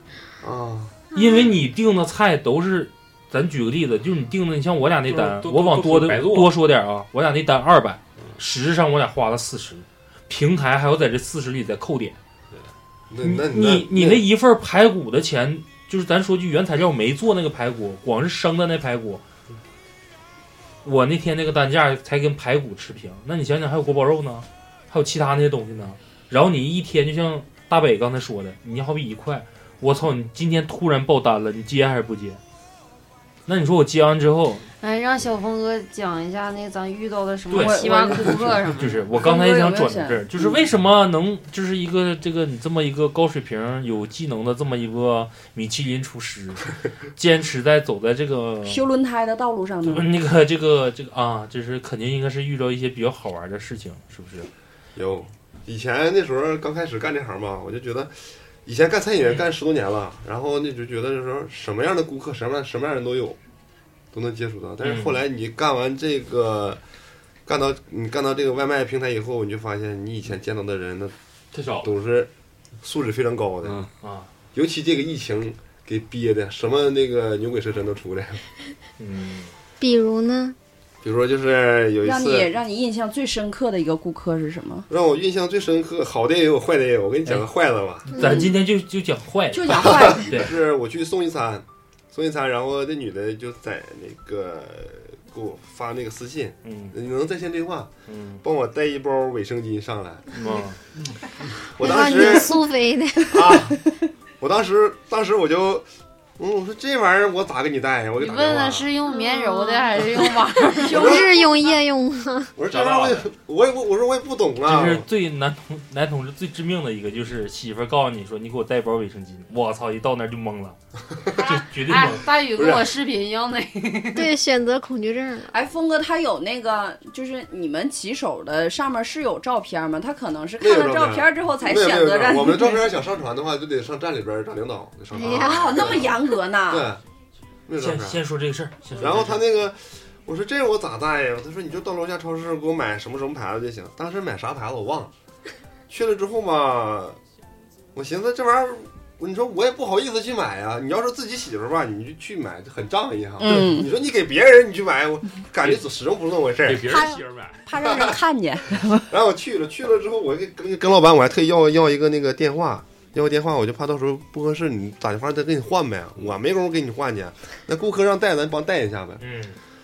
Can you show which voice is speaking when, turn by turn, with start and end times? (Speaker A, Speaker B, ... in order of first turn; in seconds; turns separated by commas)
Speaker A: 0.4-1.0, Speaker B: 1.1-1.5, Speaker C: 1.1-12.2, Speaker D: 5.1-6.5, Speaker A: 13.1-14.3, Speaker C: 13.2-19.2, Speaker C: 20.8-32.4, Speaker C: 33.5-34.7, Speaker E: 34.8-39.0, Speaker C: 37.5-48.9, Speaker F: 37.6-38.6, Speaker F: 39.2-40.5, Speaker F: 48.6-50.1, Speaker C: 49.8-54.5, Speaker A: 55.0-63.4, Speaker A: 64.1-66.8, Speaker C: 64.8-65.2, Speaker A: 67.5-71.2, Speaker D: 71.5-72.0, Speaker A: 71.8-72.3, Speaker A: 72.8-73.8, Speaker D: 73.6-73.9, Speaker C: 74.0-74.3, Speaker A: 74.5-78.4, Speaker C: 79.0-79.5, Speaker B: 79.8-80.6, Speaker A: 81.0-82.5, Speaker F: 82.0-84.9, Speaker A: 84.9-88.1, Speaker C: 88.1-90.5, Speaker B: 88.2-88.5, Speaker F: 89.5-90.3, Speaker A: 89.7-100.3, Speaker C: 96.7-97.0, Speaker C: 98.1-98.4, Speaker C: 100.3-100.8, Speaker B: 101.6-103.6, Speaker A: 101.7-102.6, Speaker A: 103.3-103.8, Speaker A: 104.4-108.9, Speaker E: 108.2-111.2, Speaker B: 109.1-112.5, Speaker F: 110.9-111.3, Speaker A: 110.9-111.3, Speaker A: 112.6-115.1, Speaker D: 112.7-113.2, Speaker C: 114.7-120.8, Speaker E: 121.3-124.3, Speaker C: 121.4-122.3, Speaker A: 122.5-122.9, Speaker B: 124.1-125.5, Speaker F: 125.5-132.9, Speaker A: 130.6-137.0, Speaker B: 135.1-136.0, Speaker F: 135.2-136.9, Speaker A: 137.7-138.2, Speaker C: 137.8-139.4, Speaker A: 139.0-145.1, Speaker A: 145.9-147.2, Speaker A: 147.9-157.0, Speaker F: 153.4-153.9, Speaker D: 156.6-157.7, Speaker F: 156.9-159.1, Speaker A: 157.8-158.1, Speaker A: 159.1-169.2, Speaker C: 169.2-169.6